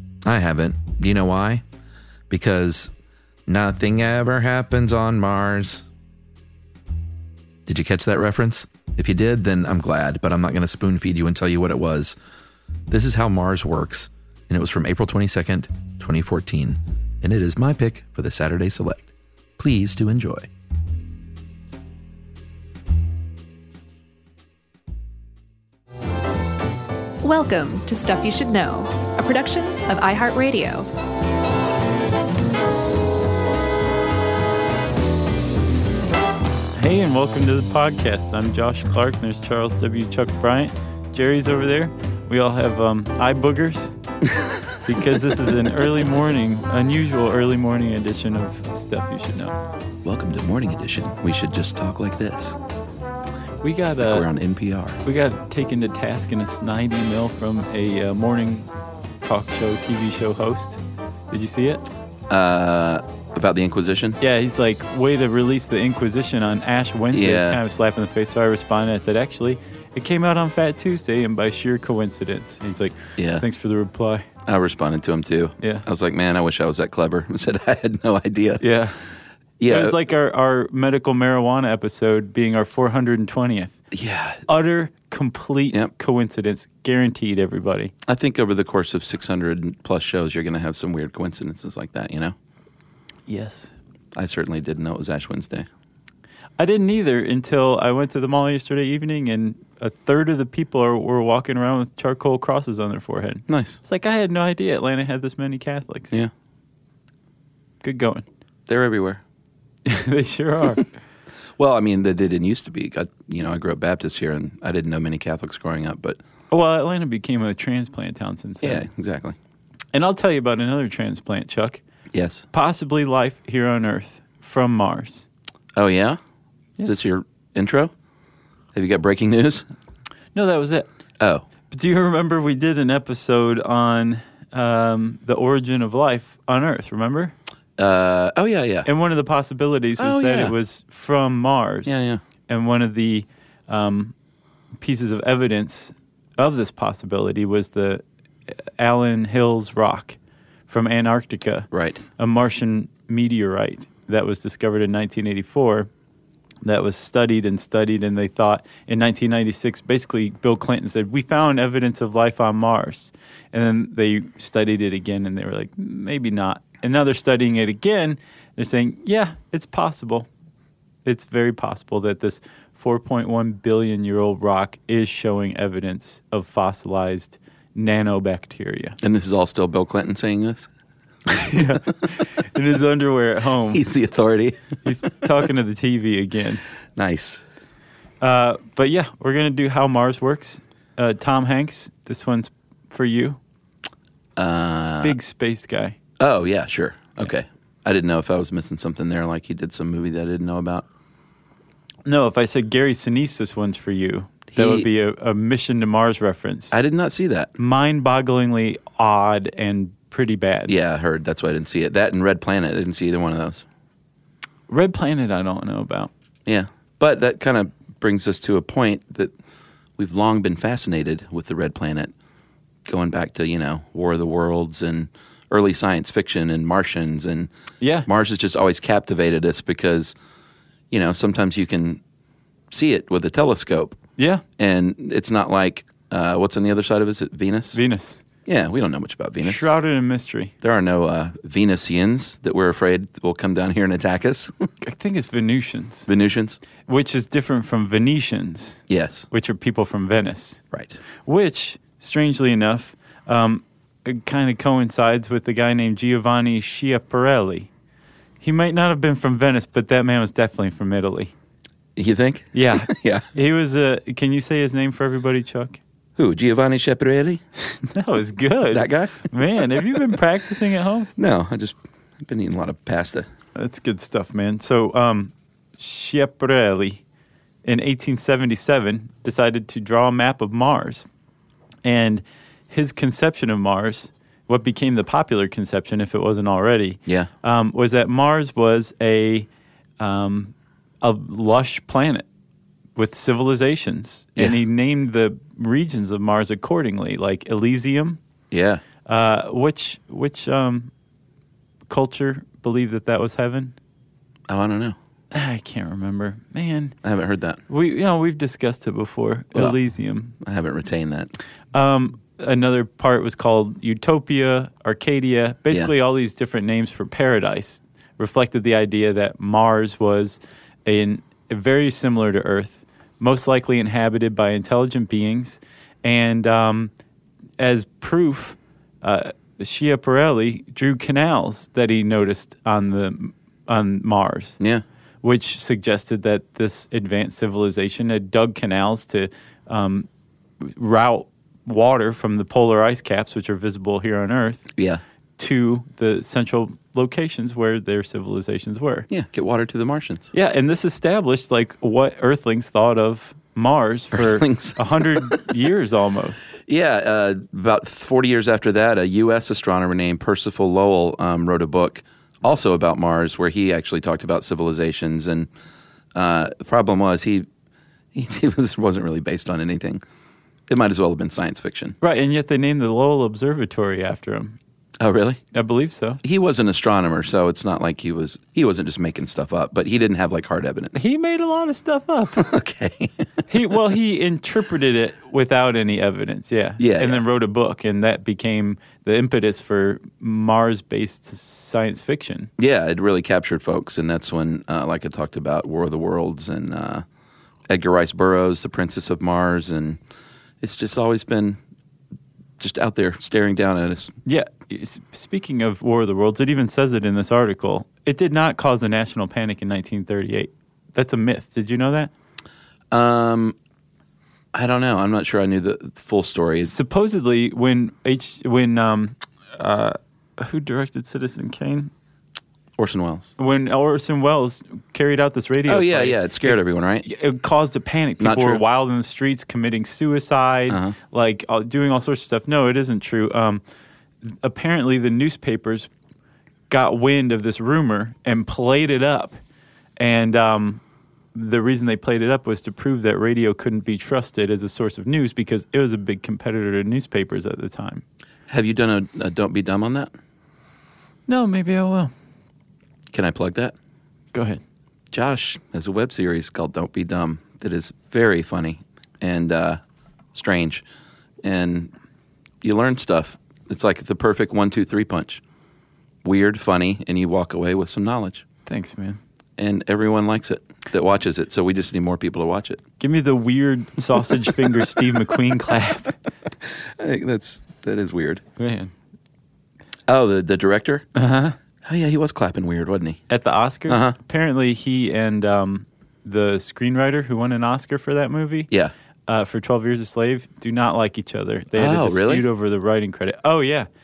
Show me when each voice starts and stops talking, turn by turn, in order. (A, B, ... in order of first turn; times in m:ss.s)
0:00.2-0:01.6 A
0:02.3-0:02.9 A
0:03.5-0:05.8 A
0:07.6-0:12.2 A
0:12.9-0:20.5 A
0:27.2-0:30.9 B
0:36.7-0:44.0 C
0:44.8-0:49.6 C
0:50.0-0:52.6 A
0:53.6-0:54.3 C
0:54.0-0:55.0 A
0:55.0-0:58.7 C
0:59.2-1:00.8 C
1:01.3-1:01.8 C
1:02.3-1:04.2 A
1:04.2-1:14.2 C
1:07.1-1:07.6 A
1:13.2-1:13.4 A
1:14.4-1:18.6 A
1:15.6-1:15.8 C
1:18.6-1:19.0 C
1:19.6-1:20.0 A
1:19.7-1:23.7 C
1:23.9-1:24.4 A
1:24.5-1:27.9 C
1:28.0-1:32.3 A
1:33.3-1:33.7 C
1:34.1-1:35.7 A
1:36.6-1:46.2 C
1:43.5-1:43.8 A
1:47.8-1:48.2 C
1:48.7-1:49.2 A
1:49.8-1:50.9 C
1:51.6-1:56.2 A
1:56.5-1:58.9 C
1:58.6-1:59.4 A
1:59.9-2:01.8 C
2:02.1-2:02.4 A
2:02.5-2:05.2 C
2:05.8-2:06.2 A
2:06.8-2:07.9 A
2:08.7-2:09.6 A
2:10.3-2:10.9 C
2:11.2-2:11.4 A
2:11.7-2:17.3 C
2:17.8-2:18.9 A
2:18.8-2:24.1 C
2:20.0-2:20.5 A
2:21.8-2:22.2 A
2:24.8-2:35.9 C
2:31.7-2:32.0 A
2:36.6-2:50.3 C
2:51.0-2:59.0 C
2:59.0-3:00.7 A
3:01.3-3:03.8 C
3:03.7-3:04.8 A
3:04.8-3:06.6 C
3:07.0-3:07.4 A
3:08.2-3:13.4 C
3:14.4-3:15.2 A
3:15.0-3:16.0 C
3:16.2-3:20.8 A
3:22.0-3:26.8 C
3:24.5-3:24.9 A
3:26.7-3:27.5 A
3:27.6-3:30.7 C
3:30.7-3:33.6 A
3:34.7-3:36.1 C
3:36.4-3:39.3 A
3:40.0-3:42.1 A
3:42.9-3:47.5 A
3:47.8-3:48.1 C
3:48.0-3:50.1 A
3:50.9-3:52.0 A
3:52.7-3:54.0 A
3:54.2-3:54.4 C
3:54.6-3:57.8 A
3:57.7-3:58.2 C
3:58.4-3:59.7 A
3:59.4-4:00.5 C
4:00.6-4:04.7 A
4:04.8-4:06.1 C
4:06.1-4:06.6 A
4:06.8-4:10.6 C
4:08.9-4:09.3 A
4:10.7-4:11.0 A
4:11.2-4:17.7 C
4:18.4-4:21.3 C
4:22.0-4:23.2 A
4:22.5-4:25.8 C
4:26.2-4:27.4 A
4:27.7-4:31.1 C
4:28.7-4:29.9 A
4:31.2-4:33.3 A
4:33.5-4:37.0 C
4:37.6-4:41.1 C
4:41.8-4:49.5 C
4:50.0-4:52.2 C
4:53.0-4:58.2 C
4:58.5-4:58.8 A
4:59.0-5:00.9 C
5:01.9-5:03.7 C
5:04.5-5:05.0 A
5:05.3-5:07.0 C
5:07.0-5:07.6 A
5:07.7-5:10.4 C
5:10.4-5:11.3 A
5:11.7-5:26.9 C
5:27.6-5:34.6 C
5:35.2-5:40.1 C
5:40.6-5:44.7 C
5:45.4-5:49.1 C
5:49.1-5:50.3 A
5:50.3-5:56.6 C
5:54.1-5:55.4 A
5:56.6-6:05.5 A
6:06.1-6:07.5 A
6:08.1-6:10.0 A
6:10.7-6:12.0 A
6:12.0-6:14.6 C
6:15.0-6:15.4 A
6:15.5-6:16.2 C
6:16.2-6:21.0 A
6:20.9-6:22.5 C
6:22.4-6:23.2 A
6:23.5-6:32.5 C
6:26.8-6:27.2 A
6:32.6-6:37.0 A
6:37.7-6:40.0 A
6:40.6-6:41.6 A
6:42.6-6:44.1 A
6:44.2-6:52.1 C
6:52.9-6:53.6 A
6:54.5-6:56.7 A
6:56.6-7:01.9 C
7:02.8-7:03.3 A
7:03.4-7:13.6 C
7:05.6-7:07.0 A
7:08.2-7:08.6 A
7:10.7-7:10.9 A
7:14.2-7:15.9 C
7:16.7-7:19.4 C
7:20.0-7:20.8 C
7:21.3-7:28.0 C
7:28.5-7:30.1 A
7:31.3-7:32.1 C
7:33.1-7:33.7 A
7:34.3-7:34.6 C
7:35.1-7:39.8 A
7:40.3-7:40.8 A
7:41.4-7:41.9 A
7:42.6-7:45.4 A
7:46.2-7:48.4 A
7:48.7-7:49.2 C
7:49.6-7:52.8 A
7:53.0-7:56.1 C
7:56.9-7:58.4 A
7:58.6-7:58.9 C
8:00.1-8:01.0 A
8:01.1-8:01.6 C
8:01.8-8:03.2 A
8:03.3-8:08.7 C
8:03.9-8:04.2 A
8:09.3-8:13.9 C
8:11.8-8:12.4 A